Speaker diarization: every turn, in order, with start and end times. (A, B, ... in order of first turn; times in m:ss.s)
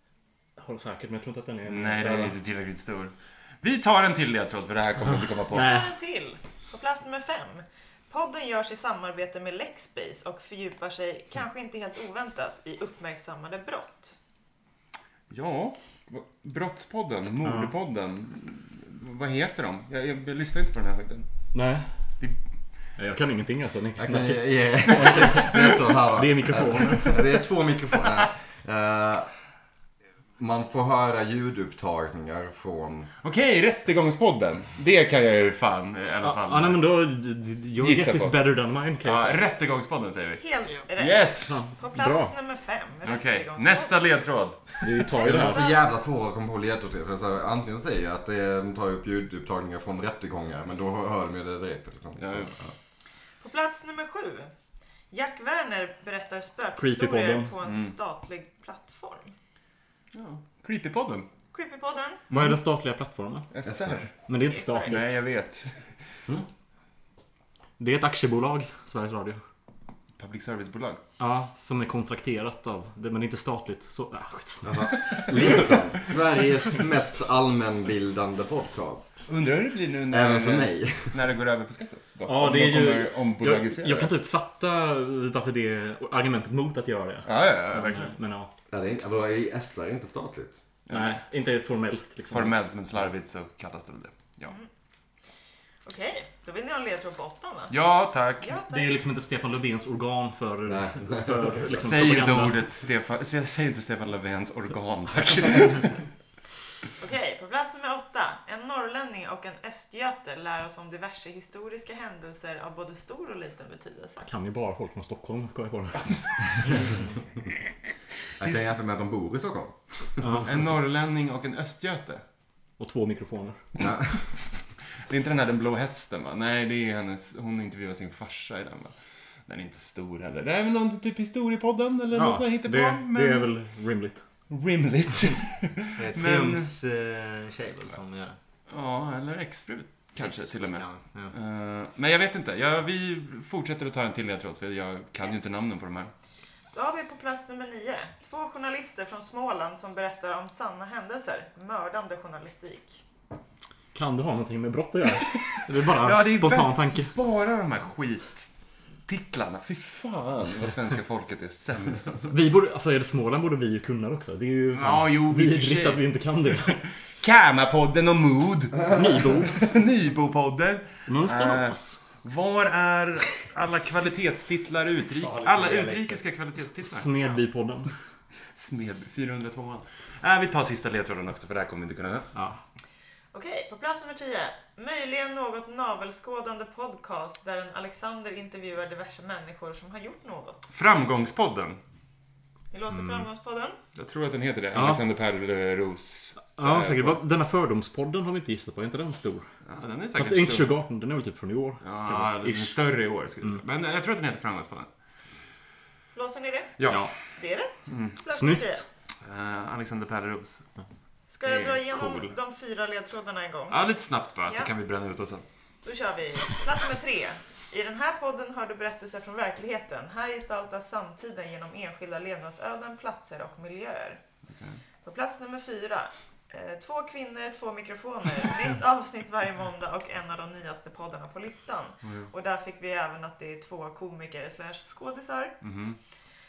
0:00.6-0:02.4 A
0:01.7-0:05.7 B
0:05.1-0:05.9 A
0:05.6-0:14.2 C
0:15.3-0:21.3 B
0:17.4-0:17.7 A
0:21.5-0:21.9 A
0:23.0-0:27.4 A
0:24.0-0:29.3 D
0:30.4-0:33.1 D
0:33.2-0:36.8 B
0:36.2-0:39.4 A
0:37.8-0:38.4 B
0:39.0-0:40.4 B
0:40.4-0:44.0 C
0:41.0-0:41.6 B
0:41.4-0:42.3 A
0:43.0-0:44.8 B
0:44.8-0:45.6 A
0:45.2-0:45.8 C
0:45.2-0:52.7 D
0:52.2-0:52.5 B
0:53.4-0:54.5 C
0:55.1-0:59.3 C
0:56.8-0:57.5 A
0:57.6-0:57.9 B
1:00.1-1:01.3 B
1:01.5-1:02.2 C
1:02.3-1:03.5 A
1:02.3-1:02.6 B
1:03.5-1:04.1 B
1:03.6-1:04.0 D
1:04.3-1:05.2 A
1:04.5-1:05.1 C
1:04.8-1:06.0 B
1:07.8-1:09.4 A
1:10.2-1:11.0 B
1:11.2-1:14.9 A
1:14.6-1:19.2 D
1:19.3-1:24.1 B
1:20.1-1:21.2 D
1:22.3-1:28.5 A
1:27.3-1:28.1 B
1:28.7-1:30.6 D
1:30.9-1:31.2 B
1:30.9-1:32.6 A
1:32.3-1:34.5 B
1:35.8-1:37.7 C
1:37.7-1:38.6 B
1:38.4-1:38.9 C
1:38.7-1:42.6 A
1:40.7-1:41.7 D
1:41.8-1:46.1 B
1:47.0-1:54.3 C
1:54.2-1:57.0 A
1:58.4-2:00.4 D
1:58.4-1:58.7 B
2:00.2-2:00.5 A
2:00.4-2:02.2 B
2:02.8-2:03.6 A
2:03.8-2:04.2 D
2:05.1-2:08.9 B
2:09.5-2:13.5 B
2:12.1-2:14.2 A
2:14.5-2:16.7 B
2:16.0-2:18.4 E
2:18.7-2:26.1 B
2:20.2-2:21.3 E
2:26.7-2:33.0 C
2:33.9-2:37.1 A
2:35.9-2:38.5 B
2:39.1-2:42.4 B
2:42.3-2:46.8 A
2:44.8-2:46.0 B
2:47.2-2:57.1 B
2:48.9-2:49.5 A
2:51.1-2:52.0 A
2:55.2-2:56.2 E
2:56.8-2:57.9 A
2:58.5-3:02.3 B
3:02.4-3:02.6 A
3:03.3-3:10.7 C
3:10.7-3:11.8 B
3:12.7-3:13.8 C
3:12.9-3:13.3 A
3:14.0-3:17.2 B
3:14.7-3:15.0 A
3:16.6-3:19.5 A
3:19.6-3:20.7 B
3:20.2-3:22.8 A
3:21.8-3:24.9 B
3:26.1-3:28.8 C
3:26.8-3:27.3 B
3:27.9-3:28.2 B
3:28.3-3:28.8 A
3:29.2-3:30.7 B
3:31.3-3:33.8 C
3:31.4-3:32.3 B
3:33.7-3:35.4 B
3:35.8-3:44.2 C
3:45.0-3:55.5 C
3:52.0-3:52.3 B
3:55.6-3:56.0 B